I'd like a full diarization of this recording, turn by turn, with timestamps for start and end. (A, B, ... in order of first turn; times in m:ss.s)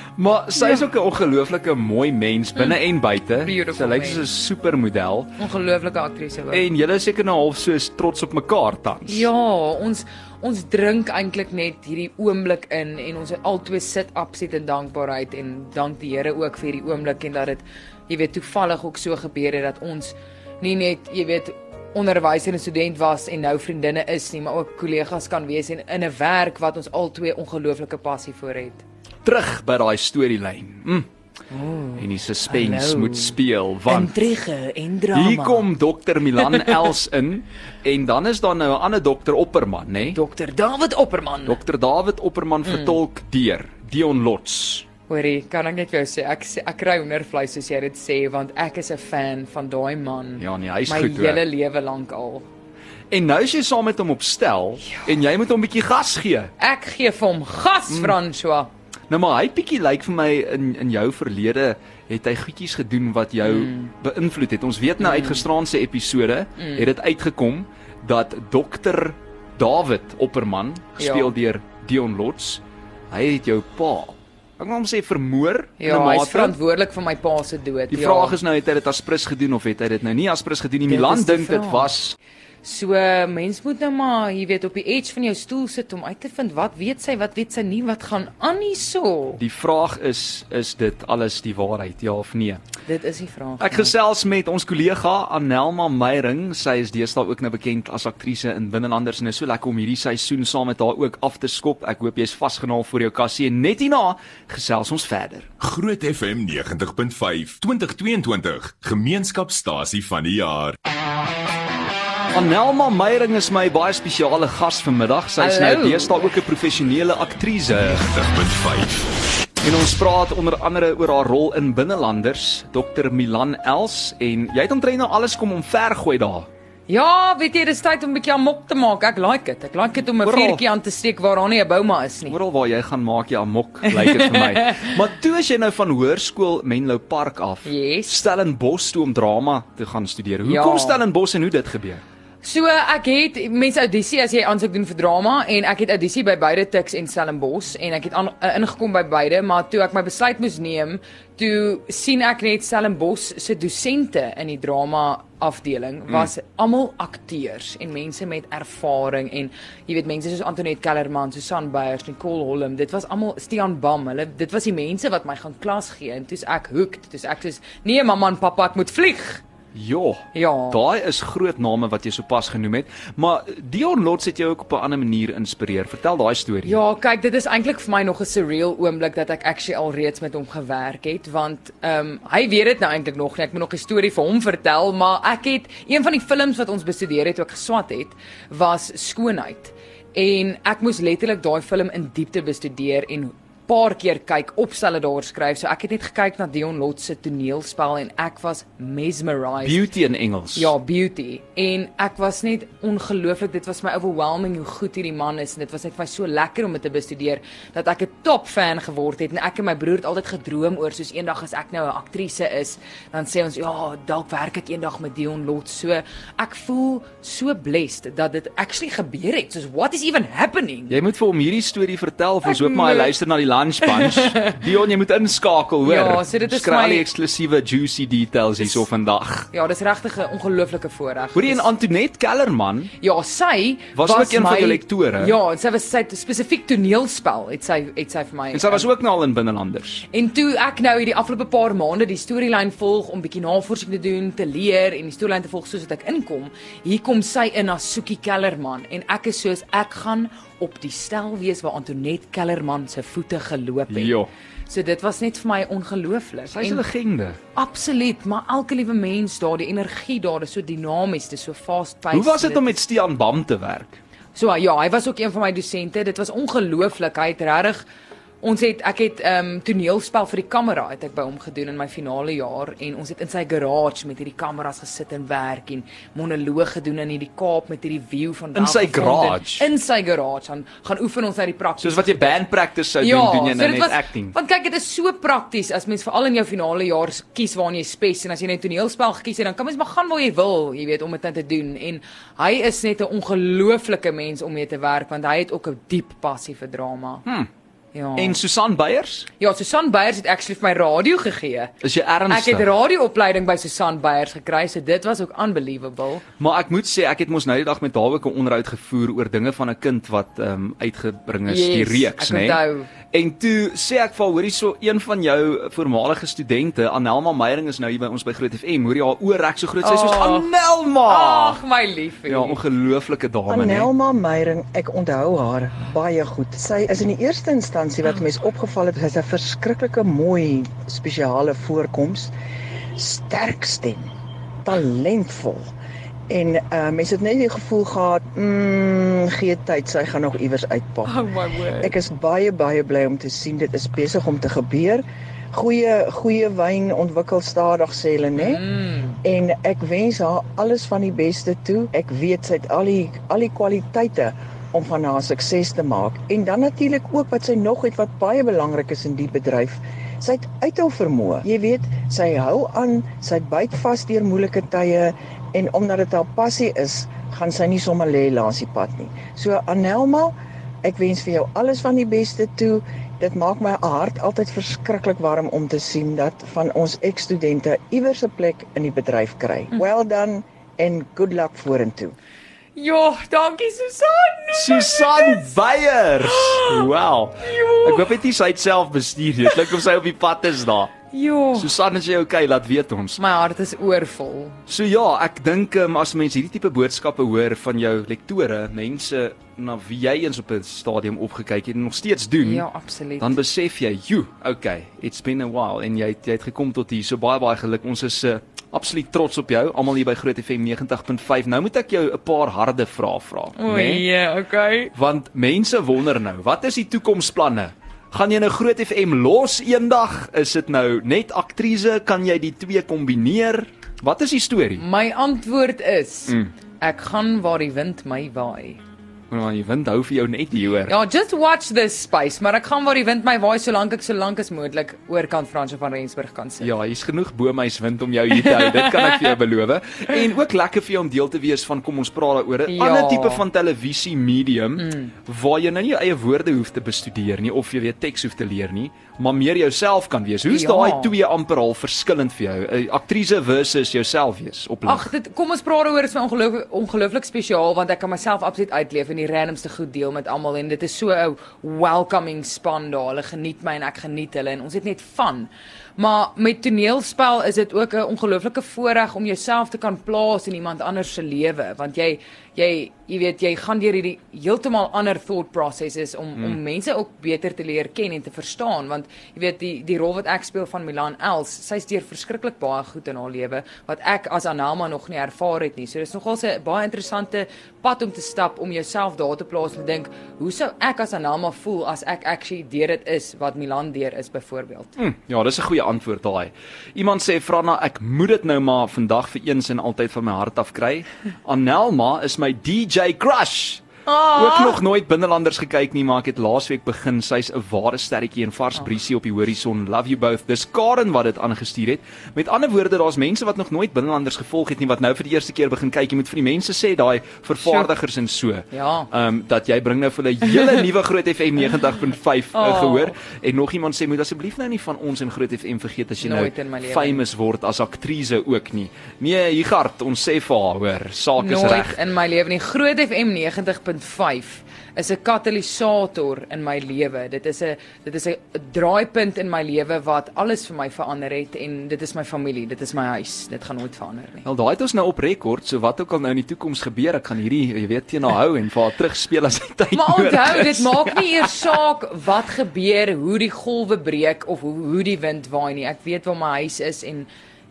0:00.2-0:05.3 A
0:00.6-0:00.8 B
0:03.4-0:04.2 B
0:05.4-0:06.7 B
0:06.5-0:09.3 A
0:09.1-0:28.8 B
0:29.2-0:31.1 A
0:31.5-0:35.7 B
0:32.0-0:34.1 A
0:35.1-0:40.2 A
0:36.4-0:36.9 B
0:40.1-0:41.6 B
0:41.5-0:44.8 A
0:42.7-0:43.0 B
0:45.1-0:52.4 B
0:50.4-0:51.4 A
0:53.1-0:56.5 A
0:56.6-0:58.7 B
0:57.9-0:58.2 A
0:59.1-1:16.6 A
1:03.4-1:03.9 B
1:05.0-1:05.4 B
1:06.6-1:06.9 B
1:11.0-1:11.3 B
1:15.8-1:18.4 B
1:17.9-1:22.2 A
1:20.9-1:21.9 B
1:22.6-1:29.4 B
1:29.4-1:32.6 A
1:32.9-1:33.9 B
1:33.6-1:45.5 A
1:45.6-1:50.8 C
1:52.3-1:58.0 A
1:55.4-1:56.4 B
1:58.0-1:59.3 C
1:59.6-2:06.5 A
2:06.9-2:12.4 B
2:10.2-2:10.6 A
2:12.3-2:22.0 A
2:13.9-2:14.9 B
2:17.7-2:18.1 B
2:20.4-2:21.0 B
2:22.4-2:49.4 B
2:49.7-2:56.8 A
2:50.3-2:50.8 B
2:56.6-3:19.8 B
3:19.6-3:20.7 A
3:20.6-3:41.0 B
3:40.9-3:49.5 A
3:42.4-3:43.1 B
3:43.8-3:44.7 B
3:45.8-3:47.1 B
3:49.5-3:51.7 B
3:51.4-3:52.9 A
3:53.0-3:58.9 B
3:54.0-3:55.4 A
3:58.5-4:00.1 A
4:00.1-4:14.2 B
4:13.9-4:14.3 A
4:14.7-4:16.8 B
4:16.5-4:17.4 A
4:17.6-4:22.8 B
4:22.1-4:24.0 A
4:24.4-4:27.9 B
4:28.4-4:42.4 B
4:38.6-4:39.7 A
4:41.8-4:44.4 A
4:43.0-4:57.2 B
4:57.9-4:58.4 B
4:58.2-4:59.3 A
4:59.4-5:01.7 B
5:01.8-5:02.7 A
5:02.3-5:06.2 B
5:06.4-5:12.6 A
5:11.5-5:12.9 B
5:13.1-5:21.6 A
5:19.8-5:20.5 B
5:21.1-5:22.6 B
5:22.3-5:23.9 A
5:23.5-5:32.3 D
5:33.0-5:34.1 D
5:34.6-5:35.7 D
5:36.3-5:41.2 D
5:41.1-5:42.0 B
5:41.8-5:48.6 D
5:48.4-5:49.2 B
5:49.2-6:22.2 D
6:22.8-6:25.5 B
6:24.5-6:30.9 A
6:26.2-6:26.9 B
6:27.4-6:28.1 B
6:29.4-6:29.7 B
6:31.1-6:31.7 B
6:31.6-6:33.2 A
6:33.2-6:34.6 B
6:34.7-6:42.6 A
6:42.4-6:43.4 B
6:43.2-6:54.0 A
6:53.6-6:54.9 B
6:54.9-7:04.8 A
7:04.8-7:08.8 B
7:09.3-7:10.9 A
7:10.9-7:16.7 B
7:16.6-7:35.1 A
7:18.3-7:19.3 B
7:22.7-7:23.4 B
7:24.8-7:25.1 B
7:30.5-7:31.1 B
7:34.9-8:14.9 B
8:15.0-8:52.0 A
8:24.1-8:24.8 B
8:37.6-8:37.9 B
8:38.7-8:39.1 B
8:42.6-8:43.2 B
8:46.2-8:47.2 B
8:51.4-9:04.4 B
9:04.4-9:11.7 A
9:09.9-9:17.3 B